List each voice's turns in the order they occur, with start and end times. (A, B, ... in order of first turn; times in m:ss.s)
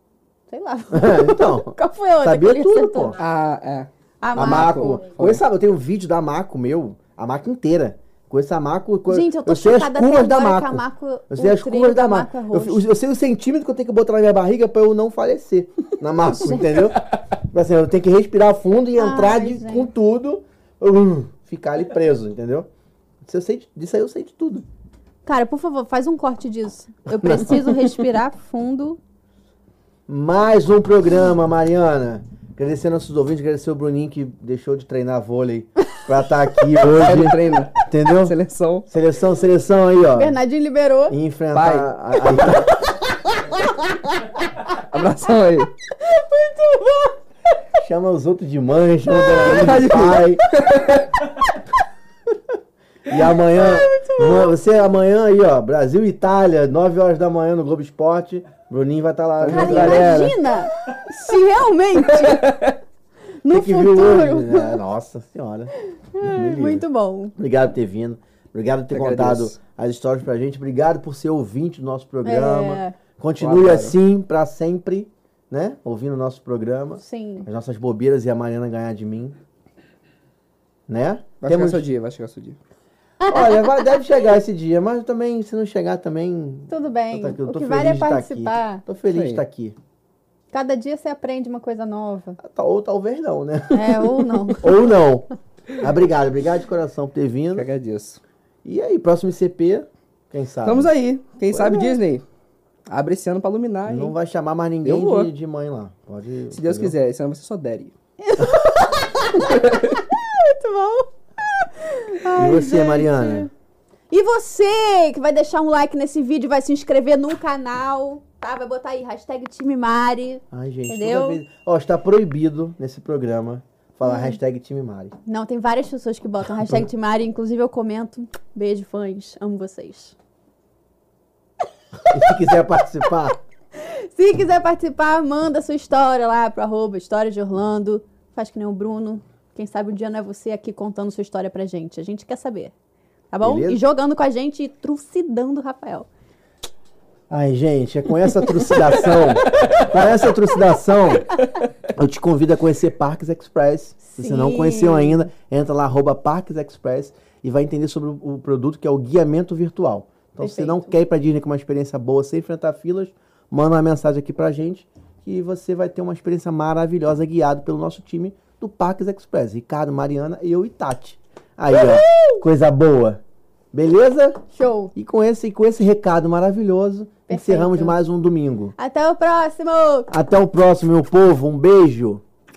0:00.5-0:03.2 A
0:00.9-0:03.2 B
0:03.2-0:05.4 C
0:04.2-0:05.0 A
0:04.3-0:22.7 B
0:09.1-0:12.8 A
0:16.3-0:16.9 A
0:19.0-0:19.9 A
0:23.2-0:24.6 B
0:25.2-0:29.0 A
0:27.2-0:27.9 B
0:30.1-0:38.3 B
0:36.9-0:38.9 C
0:38.9-0:40.4 B
0:40.1-0:41.2 A
0:41.1-0:42.8 B
0:41.5-0:41.9 C
0:42.8-0:44.0 A
0:44.8-0:45.7 C
0:46.0-0:47.2 A
0:47.8-0:50.4 B
0:49.3-0:49.6 A
0:49.4-0:51.0 C
0:53.1-1:00.3 B
0:53.5-0:54.5 A
0:59.4-1:00.4 C
0:59.5-1:02.7 A
1:02.1-1:02.7 C
1:03.4-1:04.8 A
1:03.5-1:19.4 B
1:06.1-1:07.3 A
1:08.9-1:09.6 C
1:12.2-1:13.0 A
1:13.4-1:14.0 C
1:17.0-1:17.5 A
1:20.9-1:21.8 B
1:21.4-1:22.6 C
1:23.2-1:23.6 A
1:23.2-1:29.8 B
1:26.7-1:28.8 A
1:29.1-1:29.4 C
1:30.5-1:32.4 A
1:32.4-1:35.3 B
1:33.7-1:34.8 A
1:35.8-1:37.7 B
1:37.5-1:38.2 C
1:38.6-1:40.9 B
1:40.6-1:42.2 C
1:42.9-1:44.1 C
1:43.8-1:46.9 B
1:44.8-1:45.3 C
1:46.5-1:47.9 C
1:48.2-1:53.5 A
1:49.5-1:50.0 C
1:52.3-1:53.5 B
1:54.1-2:01.4 A
2:00.5-2:05.1 B
2:04.0-2:04.4 A
2:05.2-2:10.1 A
2:12.1-2:13.4 B
2:13.7-2:22.7 A
2:23.3-2:26.1 A
2:23.4-2:23.8 B
2:27.3-2:31.3 B
2:31.9-2:53.2 B
2:34.0-2:35.2 A
2:40.4-2:40.9 A
2:51.7-2:52.4 A
2:53.7-2:54.4 B
2:54.5-2:54.9 A
2:54.9-2:58.8 B
2:57.3-2:58.0 A
2:58.8-3:00.1 A
3:00.1-3:02.2 B